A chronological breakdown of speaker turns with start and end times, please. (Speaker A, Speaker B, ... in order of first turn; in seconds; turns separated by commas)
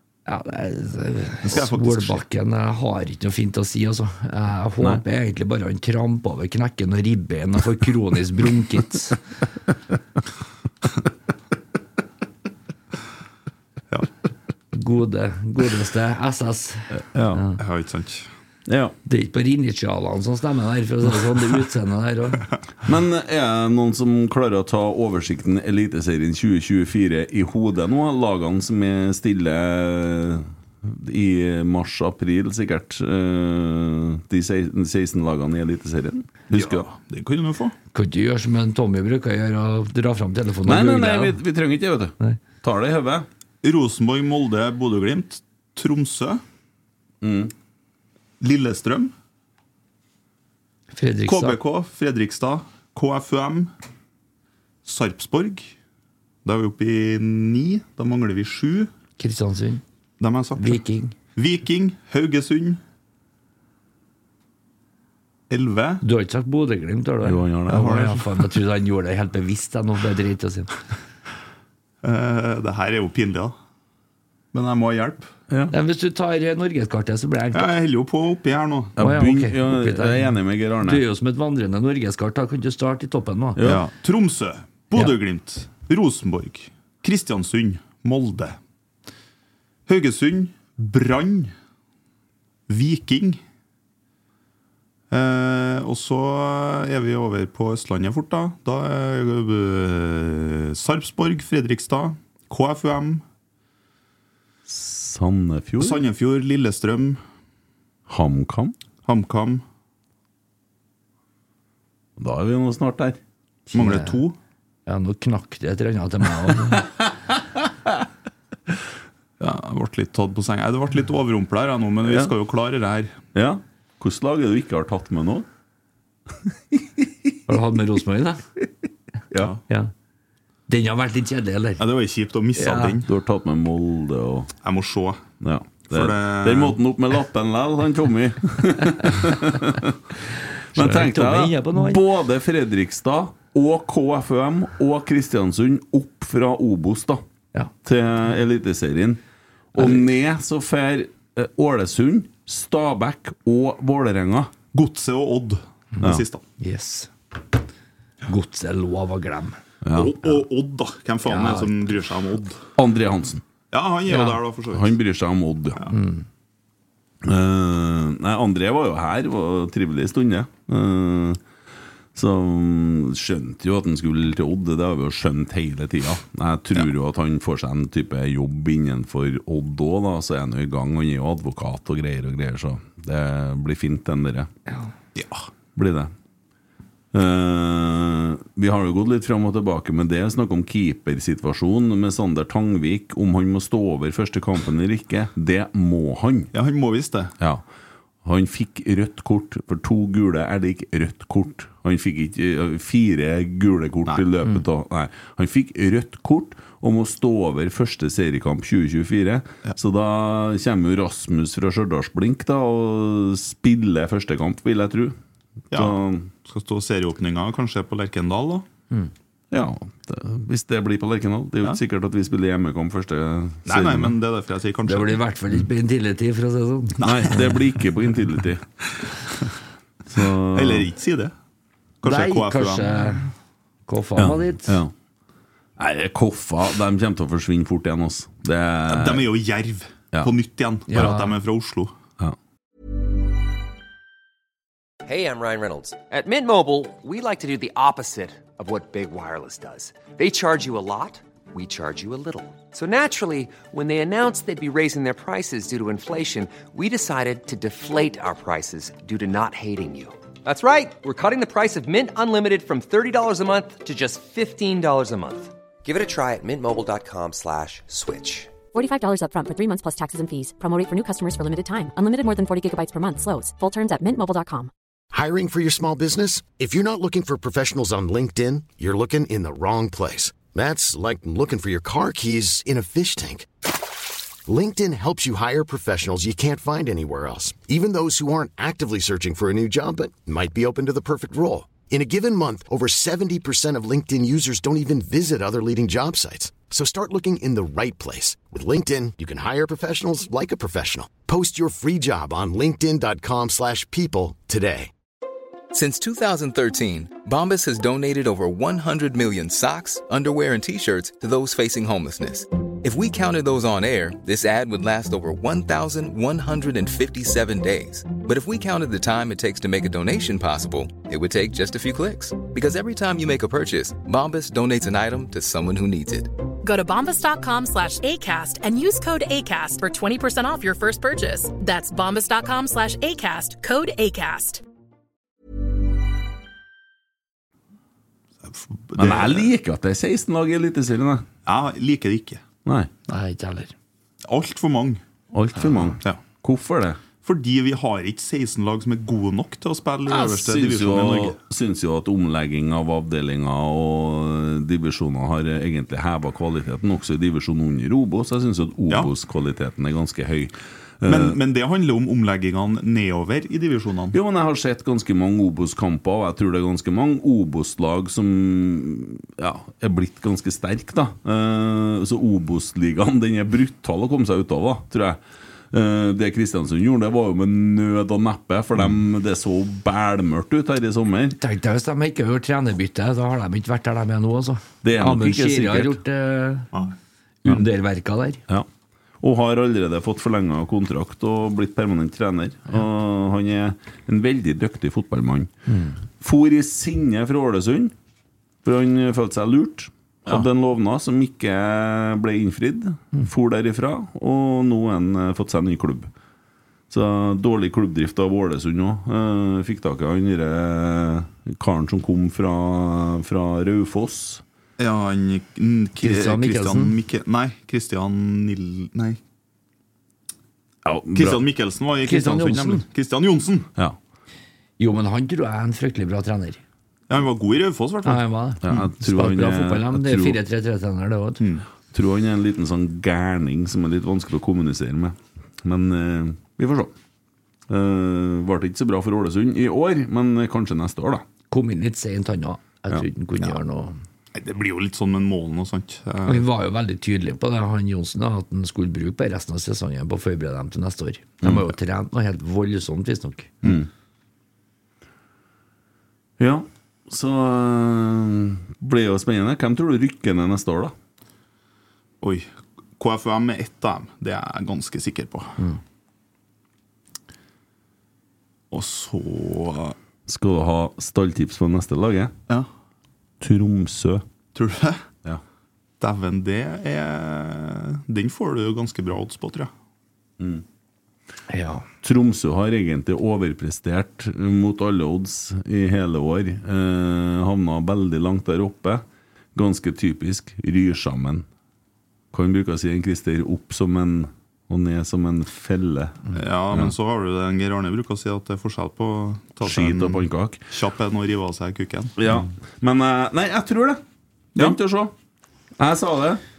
Speaker A: 0.3-9.2, Speaker B: 1.5-2.2, Speaker A: 14.7-17.6, Speaker C: 17.1-17.4, Speaker B: 17.6-18.3, Speaker C: 18.7-18.9, Speaker A: 19.1-22.5, Speaker C: 22.9-36.9, Speaker B: 36.5-37.8, Speaker A: 37.9-41.4, Speaker C: 40.6-43.3, Speaker B: 43.6-46.4, Speaker C: 47.2-47.5, Speaker B: 48.4-49.1, Speaker A: 50.9-51.6, Speaker B: 51.3-53.7, Speaker B: 54.9-55.7, Speaker B: 56.5-58.9, Speaker A: 59.2-59.8, Speaker B: 60.2-60.8, Speaker A: 60.6-61.1, Speaker B: 61.4-62.8, Speaker B: 65.5-66.0, Speaker A: 66.0-70.7, Speaker C: 67.2-68.1, Speaker B: 67.8-68.1, Speaker B: 72.0-73.5, Speaker B: 74.5-75.3, Speaker A: 75.7-77.7, Speaker B: 77.5-79.0, Speaker C: 79.0-81.0, Speaker A: 79.0-80.3, Speaker A: 80.8-83.6, Speaker C: 83.6-83.8, Speaker B: 83.6-88.6, Speaker B: 89.9-91.5, Speaker B: 92.7-93.4, Speaker B: 95.1-103.2, Speaker C: 104.7-106.0, Speaker B: 105.8-107.2, Speaker C: 108.1-108.8, Speaker B: 109.0-109.6, Speaker C: 112.2-113.2, Speaker A: 113.7-114.2, Speaker B: 113.7-114.4, Speaker A: 114.9-116.9, Speaker B: 119.4-123.2, Speaker C: 122.0-122.3, Speaker C: 123.3-125.5, Speaker C: 126.7-127.1, Speaker A: 127.5-128.4, Speaker B: 129.3-129.6, Speaker A: 130.7-131.8, Speaker B: 131.8-133.1, Speaker A: 132.6-133.0, Speaker C: 133.0-134.5, Speaker B: 134.6-135.2, Speaker C: 135.4-140.0, Speaker B: 135.9-136.8, Speaker C: 140.7-147.2, Speaker A: 140.8-142.0, Speaker C: 147.8-149.2, Speaker C: 149.7-154.5, Speaker B: 154.7-156.4, Speaker A: 156.6-157.1, Speaker A: 158.3-159.6, Speaker C: 159.8-160.2, Speaker B: 159.9-162.6, Speaker A: 161.3-162.0, Speaker C: 162.8-163.4, Speaker B: 163.7-165.0, Speaker C: 164.7-165.8, Speaker A: 165.9-166.2, Speaker C: 167.2-171.4, Speaker C: 172.2-184.5, Speaker B: 185.2-185.5, Speaker C: 185.8-186.1, Speaker C: 187.1-196.5, Speaker B: 196.5-197.3, Speaker C: 198.2-215.2, Speaker B: 215.7-218.7, Speaker C: 215.7-216.3, Speaker C: 219.5-224.2, Speaker B: 223.7-225.2, Speaker A: 224.8-227.0, Speaker B: 227.0-227.5, Speaker C: 227.0-228.6, Speaker C: 230.1-230.9, Speaker B: 230.5-231.3, Speaker B: 232.0-233.2, Speaker A: 232.0-233.3, Speaker A: 233.9-234.8, Speaker C: 234.2-234.9, Speaker C: 235.8-239.3, Speaker B: 238.9-241.9, Speaker A: 240.9-241.4, Speaker D: 245.1-268.5, Speaker E: 268.7-274.7, Speaker F: 275.1-283.5, Speaker F: 284.5-304.9, Speaker G: 305.7-326.3, Speaker H: 326.6-334.6, Speaker B: 338.5-339.5, Speaker C: 339.0-341.2, Speaker B: 341.4-342.4, Speaker C: 342.6-342.9, Speaker A: 343.1-343.7, Speaker B: 344.3-345.0, Speaker C: 345.3-347.0, Speaker A: 345.6-345.9, Speaker B: 347.2-351.4, Speaker C: 350.1-361.4, Speaker B: 361.1-364.2, Speaker C: 364.1-375.2, Speaker C: 375.7-381.4, Speaker A: 381.4-386.7, Speaker C: 384.8-386.0, Speaker A: 387.4-388.4, Speaker C: 389.2-395.5, Speaker A: 395.7-396.0, Speaker C: 396.2-397.9, Speaker C: 398.6-406.1, Speaker C: 406.9-414.4, Speaker B: 414.8-419.2, Speaker A: 416.0-416.9, Speaker C: 420.9-421.4, Speaker B: 421.1-423.7, Speaker A: 422.0-422.8, Speaker A: 424.8-426.6, Speaker B: 427.1-428.8, Speaker A: 428.1-431.4, Speaker C: 428.6-430.4, Speaker B: 431.4-431.7, Speaker C: 431.9-436.9, Speaker C: 437.7-441.2, Speaker A: 441.5-444.0, Speaker B: 444.3-446.5, Speaker A: 446.3-453.5, Speaker C: 456.4-460.9, Speaker B: 462.2-465.6, Speaker B: 468.7-470.0, Speaker C: 470.3-472.3, Speaker C: 473.4-474.2, Speaker B: 474.6-475.0, Speaker B: 476.0-479.7, Speaker A: 481.5-481.9, Speaker C: 482.0-489.0, Speaker C: 489.6-491.4, Speaker C: 492.3-496.9, Speaker B: 496.3-502.1, Speaker C: 499.6-500.6, Speaker C: 502.2-504.0, Speaker C: 504.6-505.1, Speaker C: 505.8-506.4